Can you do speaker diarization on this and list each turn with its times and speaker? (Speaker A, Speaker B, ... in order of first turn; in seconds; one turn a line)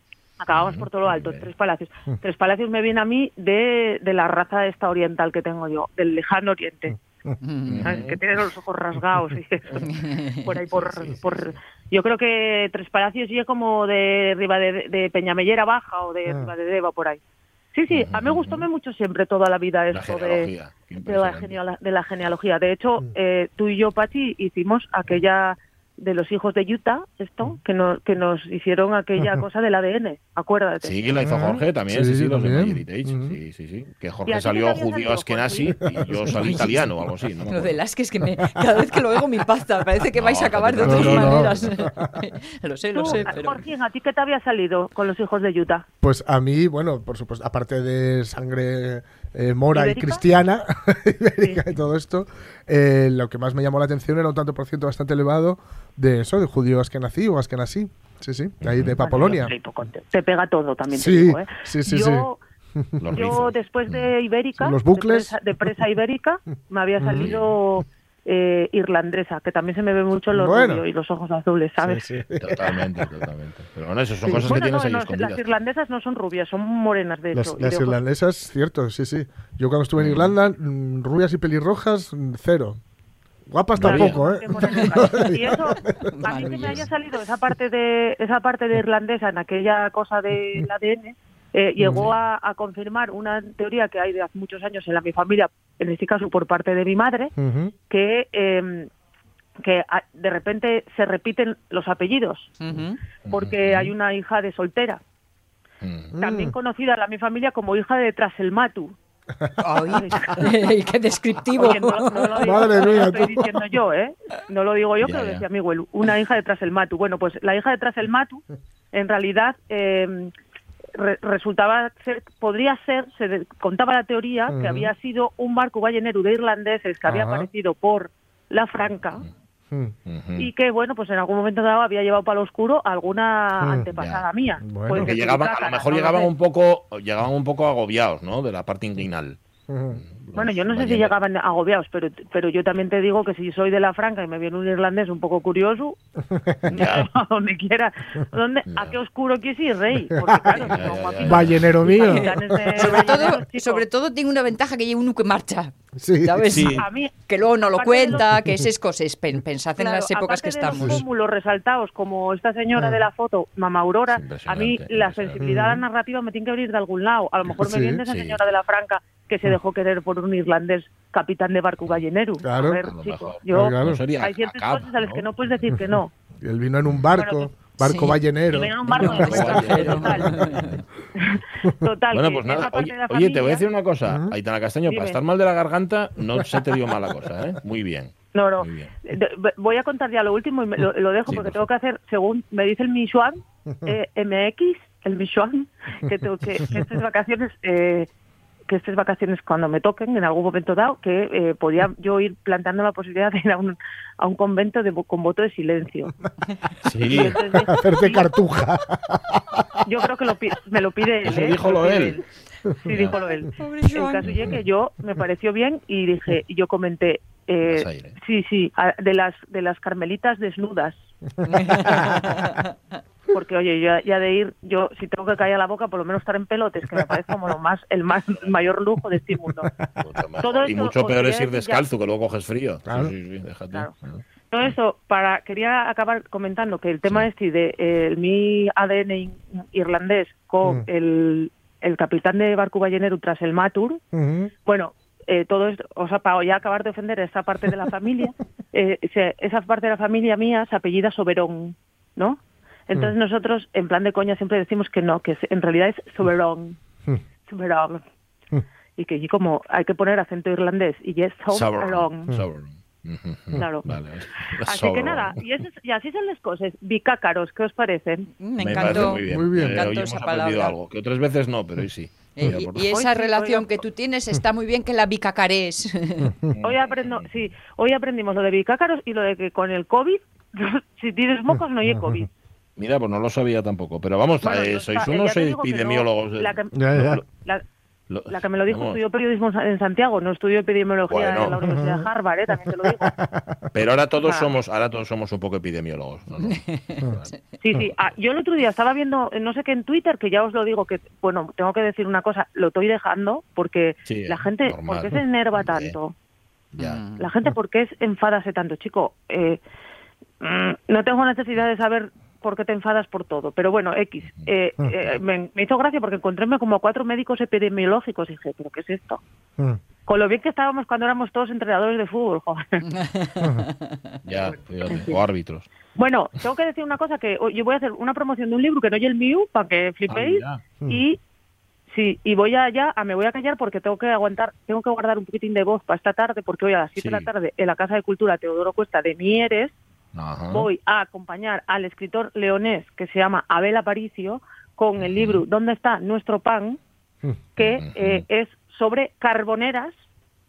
Speaker A: 0.4-6.9
Speaker B: 0.5-1.5
Speaker C: 6.9-7.3
Speaker D: 7.4-7.9
Speaker B: 7.7-8.2
Speaker A: 7.8-17.2
Speaker D: 9.9-10.3
Speaker B: 10.7-11.6
Speaker C: 16.3-16.5
Speaker A: 17.7-20.5
Speaker B: 17.9-18.7
Speaker B: 19.9-21.6
Speaker A: 21.0-31.0
Speaker B: 30.8-37.8
Speaker C: 31.2-33.4
Speaker A: 34.3-35.8
Speaker C: 35.9-36.7
Speaker D: 36.4-36.9
Speaker D: 37.5-43.6
Speaker B: 40.2-41.8
Speaker C: 40.8-42.2
Speaker A: 42.9-45.9
Speaker C: 46.0-59.5
Speaker A: 49.7-50.2
Speaker B: 58.6-59.0
Speaker A: 59.0-62.4
Speaker C: 60.9-63.3
Speaker B: 63.0-64.1
Speaker A: 63.1-72.0
Speaker C: 64.6-65.7
Speaker C: 67.0-67.3
Speaker B: 67.2-67.5
Speaker C: 70.3-70.8
Speaker C: 71.8-73.1
Speaker B: 72.4-75.4
Speaker A: 74.3-78.0
Speaker C: 77.3-82.8
Speaker B: 80.0-80.3
Speaker C: 83.5-86.8
Speaker B: 83.8-84.2
Speaker A: 83.8-97.3
Speaker D: 84.6-85.3
Speaker D: 86.1-86.8
Speaker C: 91.8-92.1
Speaker C: 97.3-97.7
Speaker A: 97.9-98.9
Speaker A: 99.6-102.5
Speaker D: 102.6-103.0
Speaker B: 103.2-103.9
Speaker A: 103.3-105.0
Speaker B: 105.8-106.1
Speaker C: 106.1-106.5
Speaker A: 106.2-108.9
Speaker C: 109.4-110.4
Speaker D: 109.6-113.4
Speaker A: 109.8-110.5
Speaker A: 111.5-120.3
Speaker C: 112.4-113.5
Speaker B: 115.0-115.4
Speaker A: 120.9-129.2
Speaker C: 124.5-124.9
Speaker C: 127.0-127.5
Speaker B: 130.1-130.5
Speaker A: 130.4-136.3
Speaker C: 133.6-133.9
Speaker B: 133.9-134.2
Speaker C: 134.6-135.1
Speaker B: 134.9-139.4
Speaker C: 139.7-140.0
Speaker B: 139.9-141.1
Speaker A: 140.3-146.0
Speaker C: 146.3-146.7
Speaker A: 146.7-153.8
Speaker B: 146.7-147.1
Speaker B: 148.7-149.0
Speaker C: 150.1-150.6
Speaker B: 150.6-151.9
Speaker C: 151.2-153.2
Speaker D: 152.0-161.0
Speaker C: 156.0-156.7
Speaker B: 156.5-156.8
Speaker A: 156.8-157.1
Speaker A: 157.7-158.3
Speaker A: 159.8-176.1
Speaker C: 160.8-161.0
Speaker C: 162.8-163.0
Speaker B: 164.1-165.4
Speaker C: 165.4-165.8
Speaker C: 167.6-168.0
Speaker B: 168.1-168.4
Speaker C: 172.4-172.8
Speaker B: 172.8-175.2
Speaker C: 173.5-174.0
Speaker C: 176.4-180.0
Speaker A: 177.1-177.5
Speaker D: 177.8-178.2
Speaker B: 178.5-180.8
Speaker A: 178.5-180.3
Speaker D: 178.9-180.7
Speaker A: 181.2-183.6
Speaker B: 182.1-188.9
Speaker C: 184.1-184.3
Speaker A: 184.9-185.2
Speaker A: 188.3-198.1
Speaker B: 191.3-191.6
Speaker A: 198.7-206.1
Speaker B: 206.8-207.3
Speaker A: 207.0-208.3
Speaker C: 207.5-209.7
Speaker A: 209.8-212.2
Speaker B: 211.2-212.2
Speaker A: 212.8-221.0
Speaker B: 212.9-213.2
Speaker D: 213.6-214.3
Speaker B: 214.2-214.6
Speaker B: 217.6-218.2
Speaker D: 221.4-222.7
Speaker C: 221.5-222.3
Speaker A: 223.3-229.7
Speaker B: 230.0-234.7
Speaker A: 230.4-231.8
Speaker C: 232.9-233.1
Speaker A: 234.5-244.0
Speaker C: 244.1-244.5
Speaker A: 244.7-256.8
Speaker A: 257.5-258.0
Speaker A: 259.0-262.3
Speaker B: 261.5-265.4
Speaker A: 263.5-263.8
Speaker A: 264.6-268.3
Speaker D: 268.4-270.8
Speaker B: 268.6-272.9
Speaker C: 269.1-269.8
Speaker D: 272.4-276.4
Speaker A: 272.9-273.7
Speaker B: 276.5-277.3
Speaker A: 276.6-282.3
Speaker C: 281.5-282.3
Speaker B: 282.8-287.2
Speaker A: 284.4-287.6
Speaker C: 286.7-287.2
Speaker B: 288.1-289.0
Speaker A: 288.3-293.1
Speaker B: 291.1-291.6
Speaker C: 291.6-292.1
Speaker C: 293.0-293.7
Speaker B: 293.7-297.3
Speaker A: 294.2-294.5
Speaker D: 296.4-297.1
Speaker A: 297.6-306.1
Speaker B: 304.1-305.9
Speaker B: 306.7-307.0
Speaker D: 306.8-307.3
Speaker A: 307.2-309.6
Speaker A: 310.4-319.2
Speaker A: 320.1-322.8
Speaker D: 322.9-324.0
Speaker C: 323.4-323.7
Speaker B: 324.2-325.7
Speaker A: 325.9-331.2
Speaker B: 330.1-330.6
Speaker A: 331.9-339.7
Speaker B: 337.0-337.3
Speaker B: 340.1-340.7
Speaker A: 340.5-346.8
Speaker B: 345.0-345.4
Speaker A: 347.6-349.9
Speaker B: 347.6-348.2